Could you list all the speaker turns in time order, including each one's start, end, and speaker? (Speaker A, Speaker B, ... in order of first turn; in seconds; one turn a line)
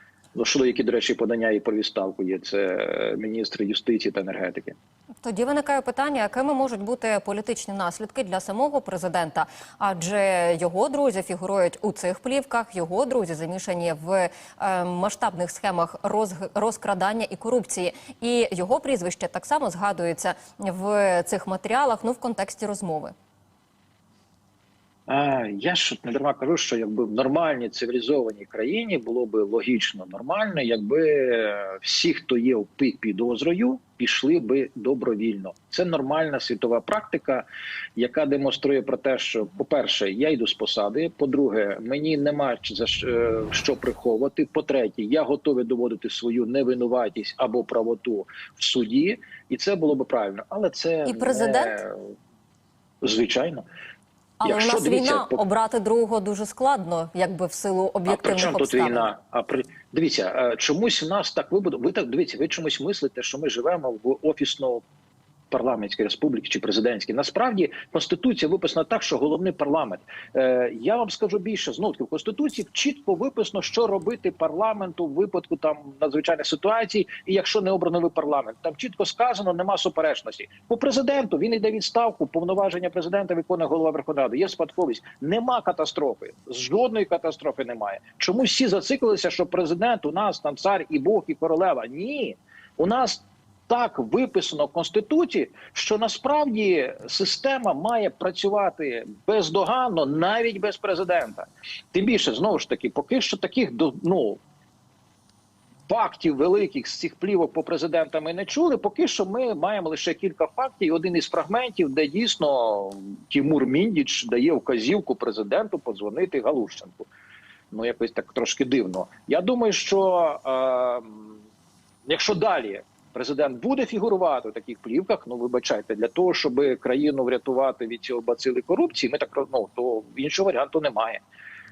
Speaker A: 0.3-4.8
Speaker B: 5.2-23.1
Speaker A: 25.1-52.1
Speaker B: 51.0-51.8
Speaker A: 53.0-53.6
Speaker B: 54.4-59.1
Speaker A: 54.4-55.4
Speaker A: 58.1-64.8
Speaker A: 65.5-104.4
Speaker A: 105.9-117.1
Speaker A: 117.7-121.4
Speaker A: 122.1-131.2